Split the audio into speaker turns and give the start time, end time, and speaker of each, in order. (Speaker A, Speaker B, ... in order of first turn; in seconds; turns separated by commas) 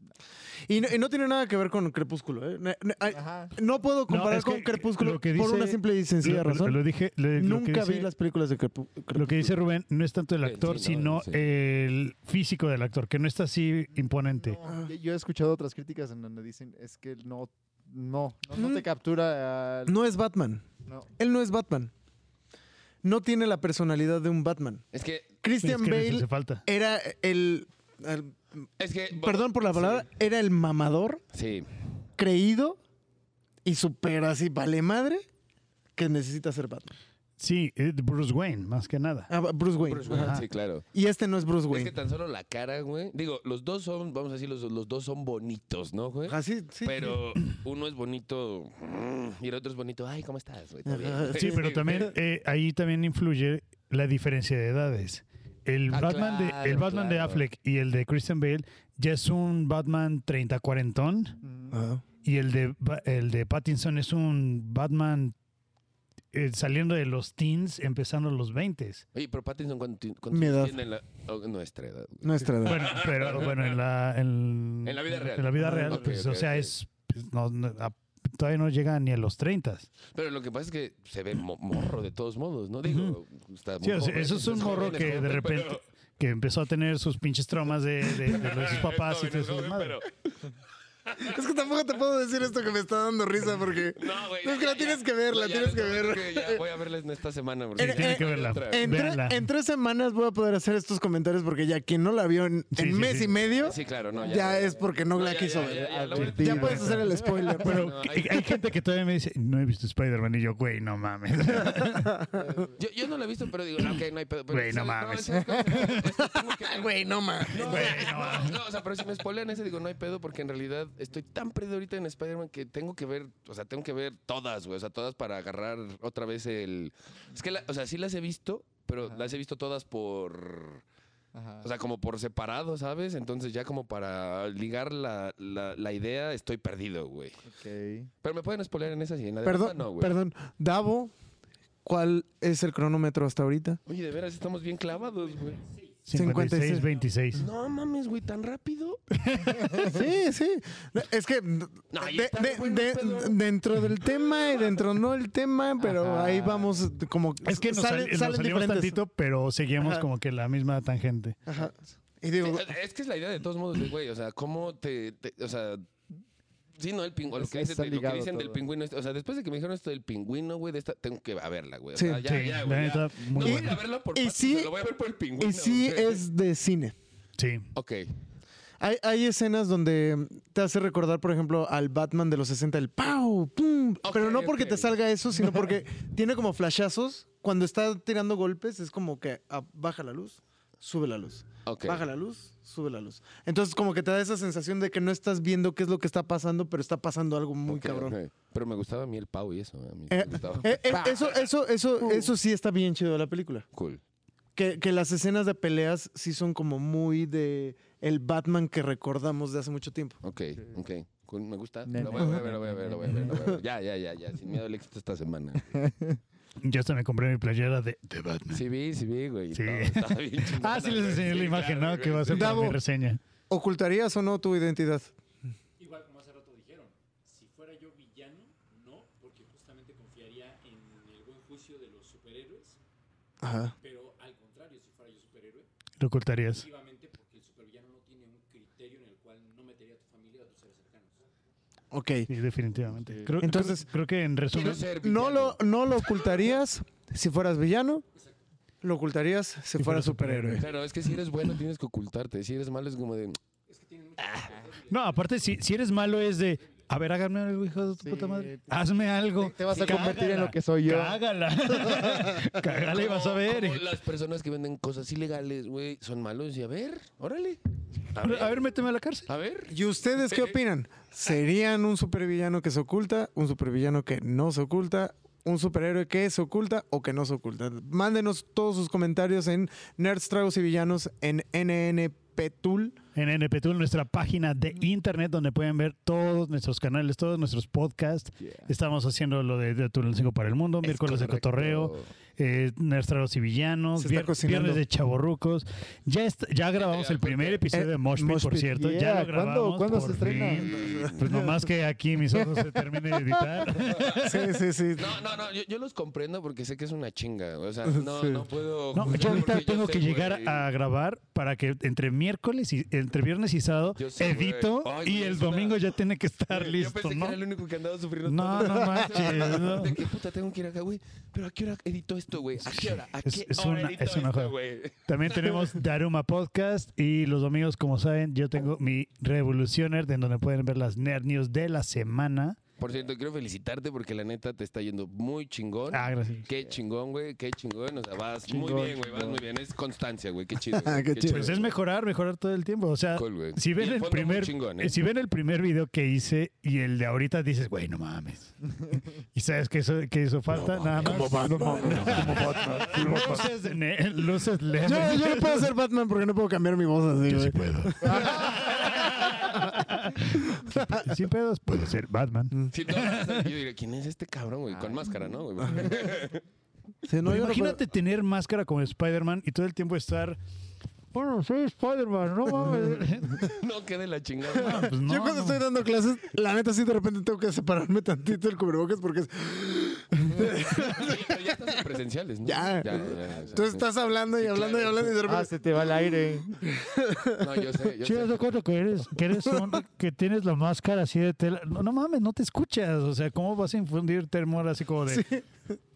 Speaker A: 0.7-6.8, Speaker B: 3.1-3.5, Speaker C: 4.1-8.1, Speaker A: 7.4-9.5, Speaker C: 9.1-14.6, Speaker D: 10.4-11.4, Speaker B: 14.4-19.9, Speaker A: 18.5-18.8, Speaker A: 19.9-20.6, Speaker B: 20.9-21.1, Speaker A: 21.2-21.9, Speaker A: 23.0-24.8, Speaker D: 24.9-25.3, Speaker A: 25.4-31.2, Speaker C: 25.6-26.6, Speaker D: 28.8-30.1, Speaker D: 31.3-31.6, Speaker A: 32.2-32.8, Speaker A: 33.6-35.2, Speaker A: 36.0-36.9, Speaker C: 37.4-39.3, Speaker A: 39.3-40.4, Speaker D: 39.8-40.8, Speaker C: 40.1-40.4, Speaker A: 40.9-41.9, Speaker D: 41.7-52.1, Speaker A: 46.3-47.2, Speaker A: 50.9-51.7, Speaker C: 51.3-61.4, Speaker D: 55.9-57.4, Speaker B: 61.4-61.7, Speaker A: 61.7-62.0, Speaker C: 62.2-65.3, Speaker C: 66.3-69.0, Speaker D: 69.1-73.8, Speaker A: 70.3-70.8, Speaker A: 72.2-72.9, Speaker C: 72.6-79.9, Speaker D: 74.8-76.7, Speaker A: 75.6-76.0, Speaker D: 80.1-85.8, Speaker C: 82.8-83.2, Speaker C: 83.8-89.9, Speaker D: 88.2-90.5, Speaker D: 91.1-91.3, Speaker A: 91.2-96.6, Speaker D: 93.9-99.0, Speaker A: 97.8-107.9, Speaker C: 97.8-99.4, Speaker C: 102.7-103.4, Speaker D: 103.5-108.6, Speaker B: 104.1-104.8, Speaker B: 105.5-107.5, Speaker C: 106.1-107.1, Speaker C: 107.6-112.2, Speaker A: 111.9-112.5, Speaker D: 112.7-130.8, Speaker C: 114.5-115.7, Speaker A: 115.8-118.1, Speaker C: 117.6-118.6, Speaker B: 131.3-131.7, Speaker D: 131.6-137.4, Speaker B: 137.4-138.1, Speaker D: 138.2-140.1, Speaker A: 139.4-141.1, Speaker A: 141.8-143.8, Speaker D: 143.9-145.6, Speaker E: 144.8-147.2, Speaker C: 146.1-147.4, Speaker A: 146.1-146.8, Speaker D: 147.3-149.0, Speaker C: 149.1-149.9, Speaker A: 149.8-159.0, Speaker D: 151.9-153.4, Speaker B: 155.9-156.7, Speaker C: 157.4-161.4, Speaker A: 159.8-160.1, Speaker A: 161.5-162.7, Speaker D: 162.4-165.9, Speaker D: 166.8-176.2, Speaker B: 167.3-168.6, Speaker A: 171.9-172.2, Speaker C: 172.2-173.8, Speaker A: 173.4-174.7, Speaker A: 175.4-176.9, Speaker C: 177.4-177.7, Speaker D: 177.7-178.1, Speaker A: 178.8-198.2, Speaker D: 184.0-184.9, Speaker D: 191.6-192.0, Speaker D: 197.7-201.5, Speaker A: 200.1-203.7, Speaker D: 202.0-202.3, Speaker D: 203.7-204.0, Speaker A: 204.6-210.2, Speaker D: 210.2-215.9, Speaker B: 211.9-213.6, Speaker A: 212.1-212.4, Speaker A: 213.2-213.6, Speaker B: 215.7-216.2, Speaker C: 216.6-218.6, Speaker D: 218.5-222.7, Speaker C: 219.5-223.2, Speaker A: 222.3-222.8, Speaker A: 223.5-225.1, Speaker E: 225.8-232.8, Speaker A: 233.4-233.7, Speaker E: 233.8-235.7, Speaker C: 236.0-236.6, Speaker E: 236.5-241.2, Speaker A: 241.9-242.3, Speaker C: 242.3-244.9, Speaker B: 242.9-243.3, Speaker A: 243.4-243.9, Speaker D: 244.5-246.3, Speaker A: 244.8-248.0, Speaker E: 248.1-248.4, Speaker A: 248.8-250.7, Speaker C: 249.8-250.6, Speaker D: 250.6-253.4, Speaker E: 253.7-256.9, Speaker D: 254.3-254.5, Speaker C: 254.9-263.8, Speaker B: 258.0-258.7, Speaker B: 259.4-261.2, Speaker E: 259.7-260.2, Speaker B: 261.8-262.5, Speaker D: 262.7-267.6, Speaker D: 268.1-268.7, Speaker C: 268.2-269.3, Speaker D: 269.3-269.8, Speaker A: 269.7-283.0, Speaker D: 270.3-270.6, Speaker C: 283.1-304.3, Speaker B: 288.4-288.7, Speaker D: 290.8-292.1, Speaker A: 293.9-294.8, Speaker D: 296.8-297.6, Speaker A: 297.7-298.7, Speaker B: 298.7-301.1, Speaker D: 300.6-301.2, Speaker A: 301.0-301.5, Speaker D: 303.8-304.2, Speaker A: 304.1-305.2, Speaker D: 304.9-310.6, Speaker A: 307.9-308.5, Speaker C: 308.9-317.4, Speaker D: 313.9-315.9, Speaker D: 316.5-325.7, Speaker C: 318.2-320.0, Speaker C: 322.6-324.5, Speaker C: 325.1-332.6, Speaker D: 332.8-341.7, Speaker C: 335.9-336.4, Speaker B: 338.5-339.4, Speaker A: 340.7-341.5, Speaker C: 341.3-348.5, Speaker D: 343.1-344.9, Speaker C: 349.3-355.7, Speaker D: 350.5-352.3, Speaker A: 351.0-353.3, Speaker B: 351.4-353.2, Speaker A: 354.8-359.5, Speaker C: 357.3-363.4, Speaker A: 360.6-361.0, Speaker D: 362.7-366.4, Speaker A: 365.6-365.9, Speaker A: 367.0-367.8, Speaker C: 367.2-370.4, Speaker C: 371.1-373.4, Speaker A: 372.5-373.0, Speaker D: 373.3-374.9, Speaker C: 374.6-375.6, Speaker A: 374.6-381.6, Speaker D: 380.7-385.1, Speaker A: 382.4-387.5, Speaker B: 383.1-383.5, Speaker B: 385.2-386.6, Speaker D: 387.4-388.4, Speaker C: 388.0-395.3, Speaker A: 389.5-389.8, Speaker A: 395.1-395.8